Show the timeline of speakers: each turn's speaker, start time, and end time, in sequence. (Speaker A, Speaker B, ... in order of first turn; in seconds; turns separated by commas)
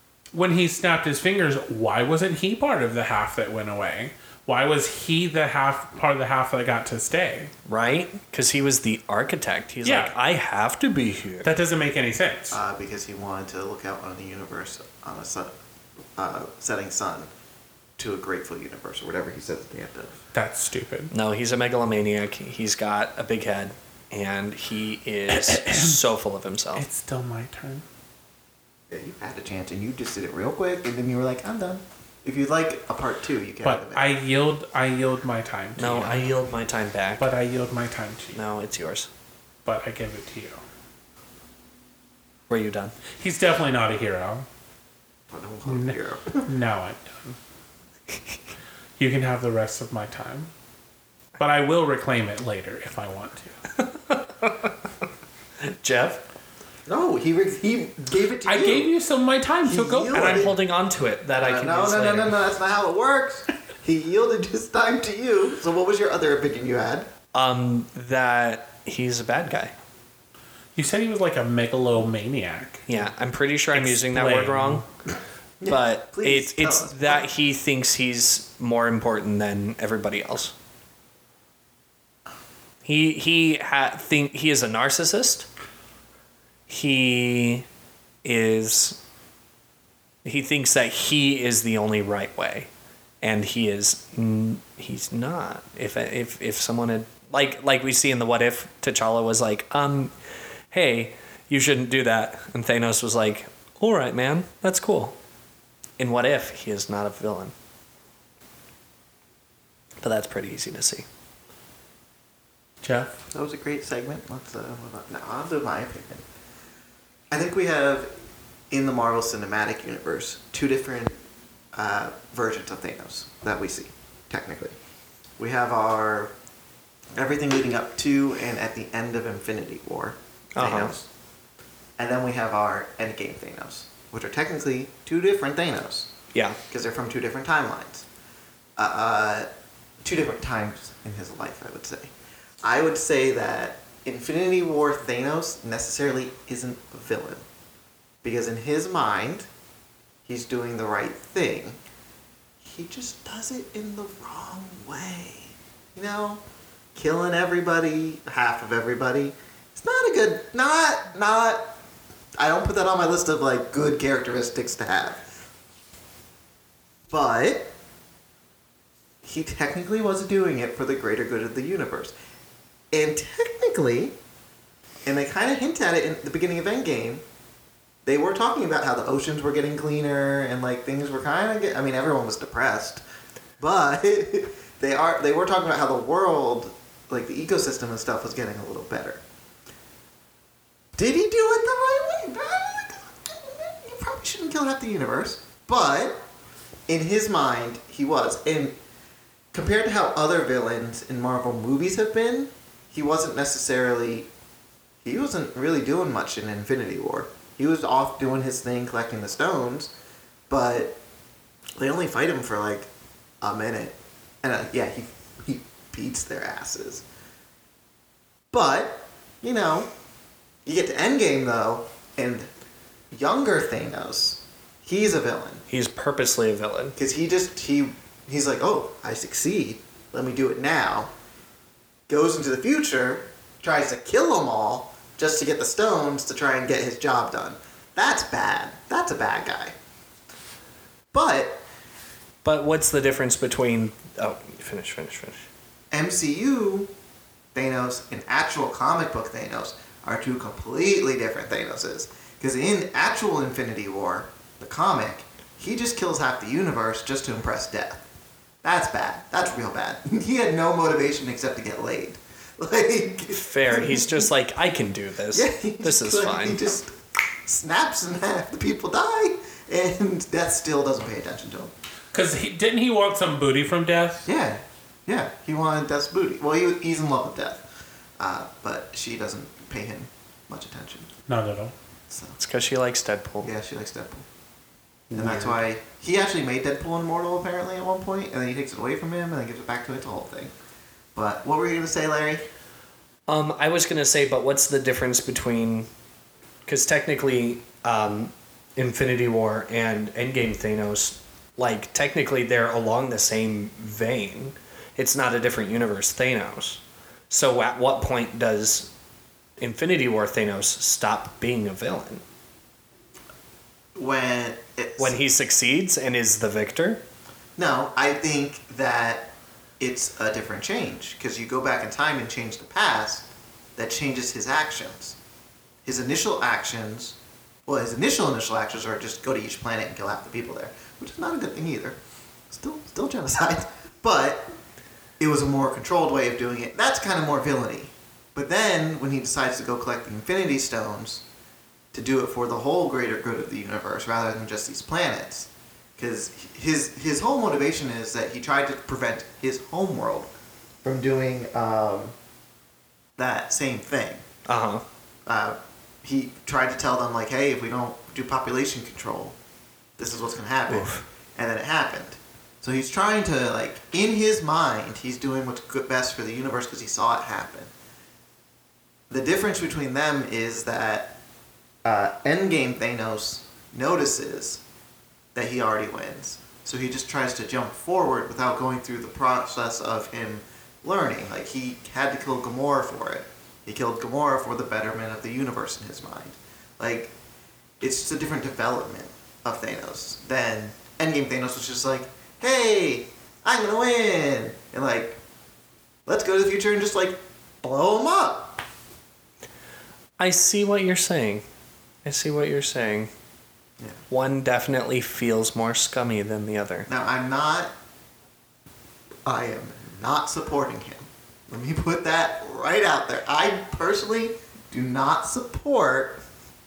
Speaker A: 0.3-7.5, Speaker B: 7.7-11.5, Speaker A: 9.8-10.1, Speaker A: 11.4-12.6, Speaker C: 12.5-15.5, Speaker C: 16.2-17.3, Speaker C: 18.0-20.2, Speaker A: 20.3-21.1, Speaker B: 21.1-26.9, Speaker A: 25.3-26.0, Speaker A: 26.8-27.9, Speaker C: 28.9-34.1, Speaker A: 33.6-36.3, Speaker B: 35.8-37.3, Speaker A: 37.2-38.4, Speaker B: 38.3-39.1, Speaker A: 39.6-40.6, Speaker B: 42.5-43.0, Speaker A: 43.2-44.5, Speaker C: 45.3-46.5, Speaker A: 45.7-47.4, Speaker A: 49.0-50.5, Speaker A: 51.4-53.6, Speaker B: 53.8-54.7, Speaker B: 55.6-56.2, Speaker C: 56.9-58.9, Speaker A: 58.4-60.4, Speaker C: 59.6-60.5, Speaker B: 60.1-62.4, Speaker C: 61.4-67.1, Speaker B: 67.3-69.7, Speaker A: 70.8-72.9, Speaker B: 72.9-74.8, Speaker A: 73.7-74.9, Speaker C: 75.6-77.3, Speaker B: 75.7-80.5, Speaker B: 82.8-85.5, Speaker B: 86.7-87.7, Speaker B: 88.2-89.0, Speaker B: 90.2-92.7, Speaker B: 93.2-100.1, Speaker B: 100.7-105.2, Speaker B: 106.0-107.5, Speaker B: 110.0-111.1, Speaker A: 112.8-113.2, Speaker C: 113.3-116.2, Speaker C: 117.3-118.1, Speaker C: 118.7-121.1, Speaker C: 121.7-124.8, Speaker C: 125.4-126.3, Speaker C: 127.2-131.1, Speaker B: 130.6-130.9, Speaker C: 132.0-136.1, Speaker B: 136.3-136.6, Speaker C: 136.7-138.1, Speaker C: 138.8-139.5, Speaker C: 140.0-142.1, Speaker C: 142.6-147.4, Speaker C: 148.2-149.5, Speaker C: 150.3-151.8, Speaker C: 152.6-156.4, Speaker C: 156.9-161.7, Speaker C: 162.4-165.2, Speaker C: 167.1-167.7, Speaker C: 169.2-172.1, Speaker C: 172.9-174.2, Speaker C: 175.1-177.2, Speaker C: 178.1-183.0, Speaker C: 183.6-189.2, Speaker C: 191.0-196.2, Speaker C: 196.9-198.8, Speaker C: 199.5-204.3, Speaker C: 205.1-209.9, Speaker C: 210.5-211.0, Speaker C: 211.8-212.9, Speaker C: 213.4-217.0, Speaker C: 218.5-219.9, Speaker C: 220.7-222.5, Speaker C: 223.1-225.7, Speaker B: 225.7-227.0, Speaker C: 227.0-231.1, Speaker C: 232.1-239.8, Speaker C: 241.1-241.7, Speaker B: 242.4-245.5, Speaker C: 245.9-246.9, Speaker C: 247.5-258.0, Speaker C: 258.6-264.3, Speaker B: 263.3-266.6, Speaker C: 265.3-266.9, Speaker C: 267.4-271.7, Speaker A: 272.1-274.3, Speaker C: 274.3-277.6, Speaker C: 278.2-281.1, Speaker A: 281.3-281.7, Speaker C: 282.1-282.4, Speaker B: 282.4-283.5, Speaker C: 283.4-284.2, Speaker B: 285.1-285.6, Speaker C: 285.1-290.5, Speaker C: 291.1-292.5, Speaker B: 293.3-295.9, Speaker B: 296.7-308.9, Speaker B: 309.6-312.2, Speaker C: 313.9-315.2, Speaker B: 315.0-317.0, Speaker C: 317.6-325.2, Speaker C: 325.9-332.0, Speaker C: 332.5-334.5, Speaker C: 335.2-341.2, Speaker C: 341.9-350.3, Speaker C: 350.8-352.1, Speaker C: 353.2-354.2, Speaker B: 354.5-354.8, Speaker C: 355.3-359.4, Speaker C: 360.0-367.7, Speaker B: 360.7-361.0, Speaker C: 369.1-371.2, Speaker C: 371.8-374.6, Speaker C: 375.4-387.1, Speaker C: 387.8-395.2, Speaker C: 396.1-398.6, Speaker B: 400.2-401.4, Speaker B: 402.0-403.1, Speaker B: 404.1-406.9, Speaker C: 406.9-407.7, Speaker C: 409.2-416.2